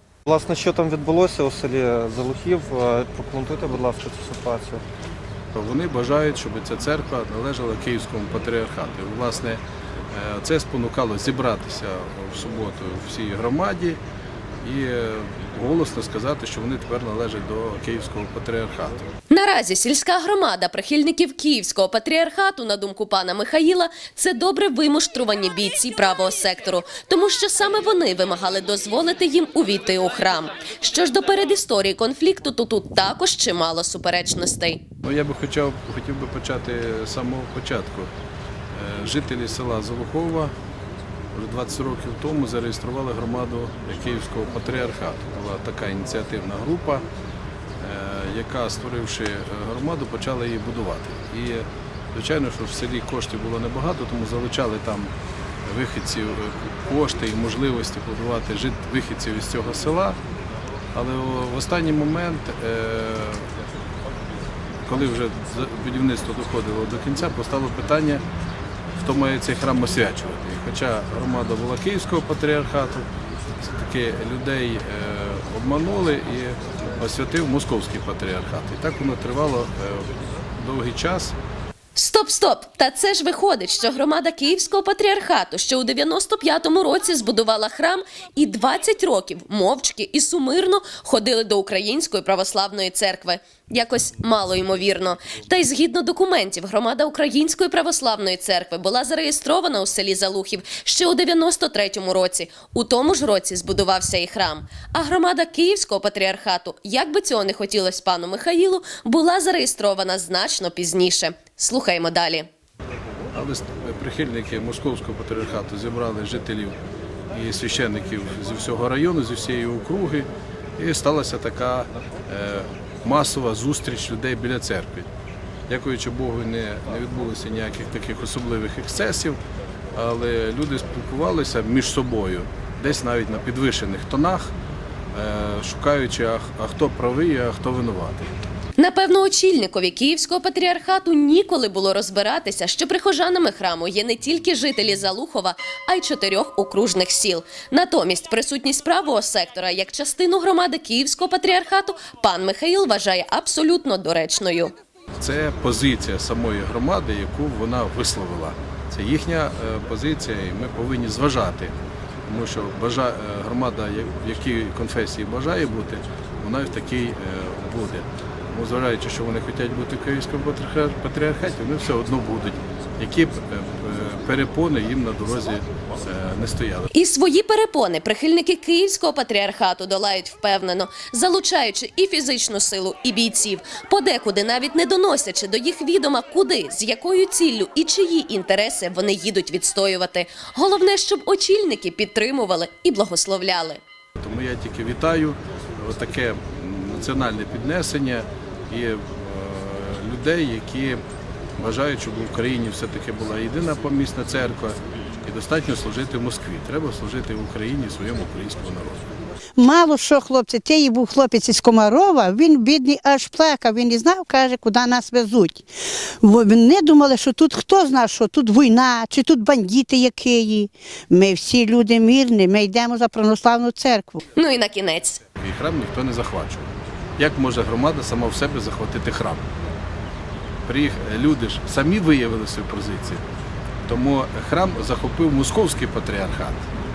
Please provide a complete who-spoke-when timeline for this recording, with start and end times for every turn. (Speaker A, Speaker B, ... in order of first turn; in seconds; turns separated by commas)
Speaker A: 0.3-4.8, Speaker B: 5.5-9.6, Speaker B: 10.1-14.0, Speaker B: 14.6-19.1, Speaker C: 19.3-34.8, Speaker B: 35.0-38.1, Speaker B: 38.7-40.5, Speaker B: 41.3-47.0, Speaker B: 47.8-55.1, Speaker B: 55.6-60.2, Speaker B: 60.9-63.5, Speaker B: 64.9-68.2, Speaker B: 69.0-73.1, Speaker B: 73.6-81.3, Speaker C: 81.9-112.5, Speaker B: 113.3-116.8, Speaker B: 117.3-125.1, Speaker B: 125.7-129.4, Speaker B: 129.9-134.5, Speaker B: 135.1-138.3, Speaker C: 138.8-154.7, Speaker B: 155.2-161.7, Speaker B: 162.2-176.9, Speaker C: 176.9-193.8, Speaker B: 194.2-201.0, Speaker B: 201.6-209.0, Speaker D: 209.6-215.7, Speaker D: 216.2-224.2, Speaker C: 224.3-225.2, Speaker B: 225.4-229.4, Speaker B: 230.7-233.2, Speaker B: 233.8-236.7